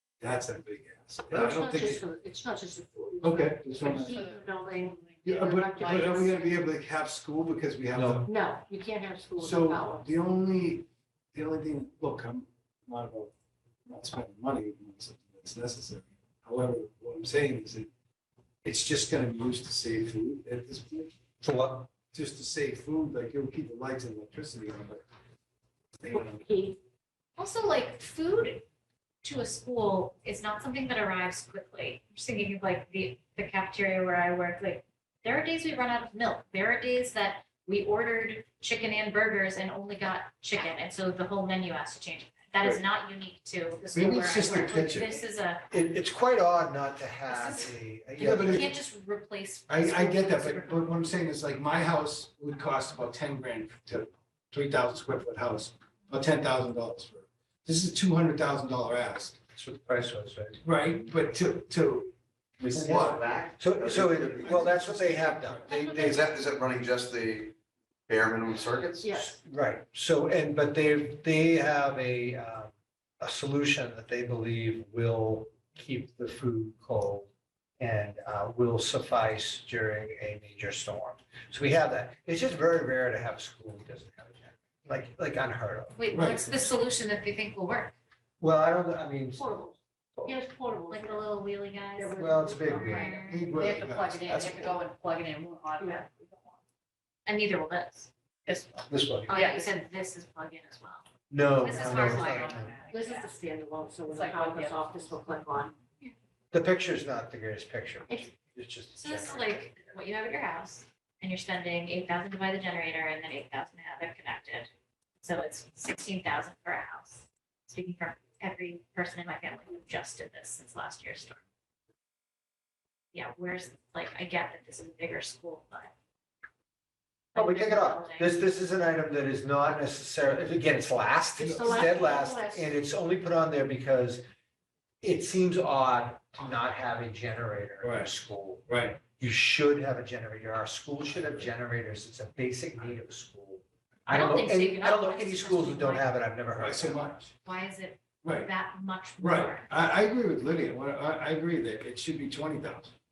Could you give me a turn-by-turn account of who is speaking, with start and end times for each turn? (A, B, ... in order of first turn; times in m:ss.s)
0:00.2-0:02.0 A
0:01.3-0:06.4 B
0:03.2-0:04.3 A
0:03.9-0:06.2 C
0:05.2-0:08.3 A
0:07.9-0:08.2 D
0:08.2-0:10.1 B
0:09.4-0:13.3 A
0:13.9-0:17.9 A
0:18.6-0:21.1 A
0:21.4-0:21.9 D
0:22.1-0:25.0 A
0:26.0-0:26.4 A
0:26.1-0:26.8 B
0:27.4-0:28.6 E
0:29.2-0:45.6 E
0:43.8-0:45.2 A
0:45.7-0:48.7 D
0:47.3-0:47.7 E
0:48.2-0:48.7 A
0:48.5-0:51.1 E
0:49.7-0:59.4 A
0:59.6-1:00.6 D
1:00.6-1:02.1 A
1:02.6-1:05.0 F
1:02.8-1:03.3 A
1:03.1-1:05.9 D
1:04.4-1:05.6 A
1:05.7-1:07.5 F
1:05.7-1:06.2 B
1:08.1-1:09.1 F
1:09.0-1:09.4 B
1:09.1-1:26.0 D
1:25.9-1:27.9 E
1:26.1-1:26.6 A
1:28.4-1:29.5 D
1:29.4-1:31.3 B
1:30.9-1:33.5 E
1:32.0-1:33.5 B
1:32.2-1:33.2 D
1:33.3-1:34.5 A
1:33.5-1:36.6 C
1:34.3-1:34.8 B
1:35.8-1:36.0 B
1:37.3-1:38.1 E
1:38.5-1:39.7 C
1:38.9-1:39.3 D
1:39.3-1:41.1 E
1:41.3-1:42.8 D
1:41.6-1:43.3 E
1:41.7-1:43.2 C
1:42.9-1:45.8 B
1:44.1-1:45.1 C
1:46.5-1:49.6 D
1:49.0-1:54.7 E
1:55.2-2:01.4 E
2:03.1-2:05.9 E
2:07.4-2:08.3 E
2:07.4-2:14.2 D
2:11.4-2:12.7 B
2:15.0-2:27.3 D
2:17.8-2:18.1 A
2:18.7-2:19.0 A
2:24.1-2:26.1 E
2:26.6-2:27.2 A
2:27.4-2:29.7 E
2:28.2-2:28.5 A
2:29.2-2:32.9 A